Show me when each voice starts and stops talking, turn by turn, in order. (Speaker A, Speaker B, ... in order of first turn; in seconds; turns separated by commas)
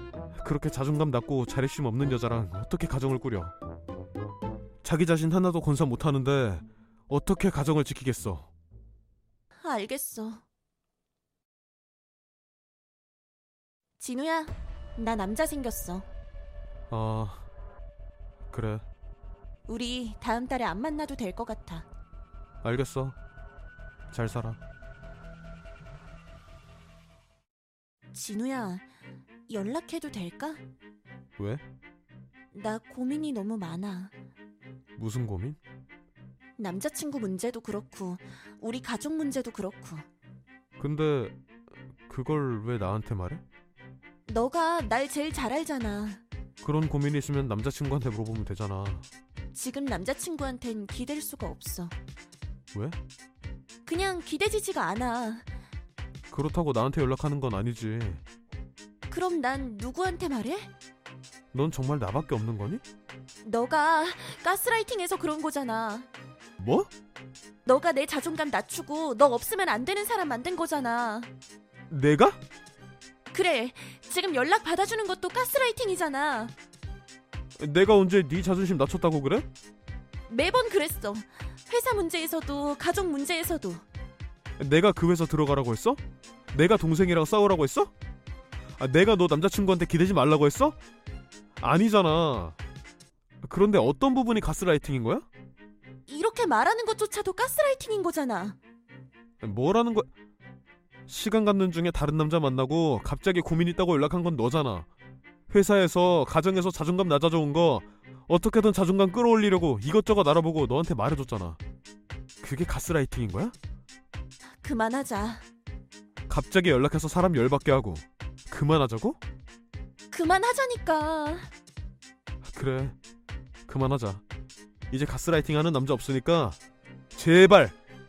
Speaker A: 0.3-3.5, Speaker A: 4.8-8.5, Speaker B: 9.6-10.4, Speaker B: 14.0-16.1, Speaker A: 16.9-17.5, Speaker A: 18.5-18.9, Speaker B: 19.7-21.9, Speaker A: 22.6-23.2, Speaker A: 24.1-24.6, Speaker B: 28.1-28.9, Speaker B: 29.5-30.6, Speaker A: 31.4-31.6, Speaker B: 32.5-34.1, Speaker A: 35.0-35.6, Speaker B: 36.6-40.1, Speaker A: 40.8-41.4, Speaker A: 42.1-43.4, Speaker B: 44.3-46.2, Speaker A: 46.6-49.1, Speaker B: 49.5-52.0, Speaker A: 52.7-53.0, Speaker B: 53.9-55.5, Speaker A: 56.3-58.2, Speaker B: 59.1-60.7, Speaker A: 61.5-62.8, Speaker B: 63.4-66.1, Speaker A: 66.6-66.9, Speaker B: 67.7-71.3, Speaker A: 71.9-72.4, Speaker B: 73.3-76.5, Speaker A: 77.6-79.5, Speaker B: 80.3-83.8, Speaker A: 84.6-86.0, Speaker A: 86.5-87.9, Speaker A: 88.8-90.8, Speaker A: 91.6-92.6, Speaker A: 93.4-95.3, Speaker B: 96.1-98.6, Speaker A: 99.4-100.1, Speaker A: 101.1-104.9, Speaker A: 105.5-111.6, Speaker A: 112.4-113.5, Speaker B: 114.6-115.5, Speaker A: 116.3-119.2, Speaker B: 120.1-121.5, Speaker A: 122.4-123.0, Speaker A: 123.7-124.2, Speaker A: 124.9-126.6, Speaker A: 127.1-127.8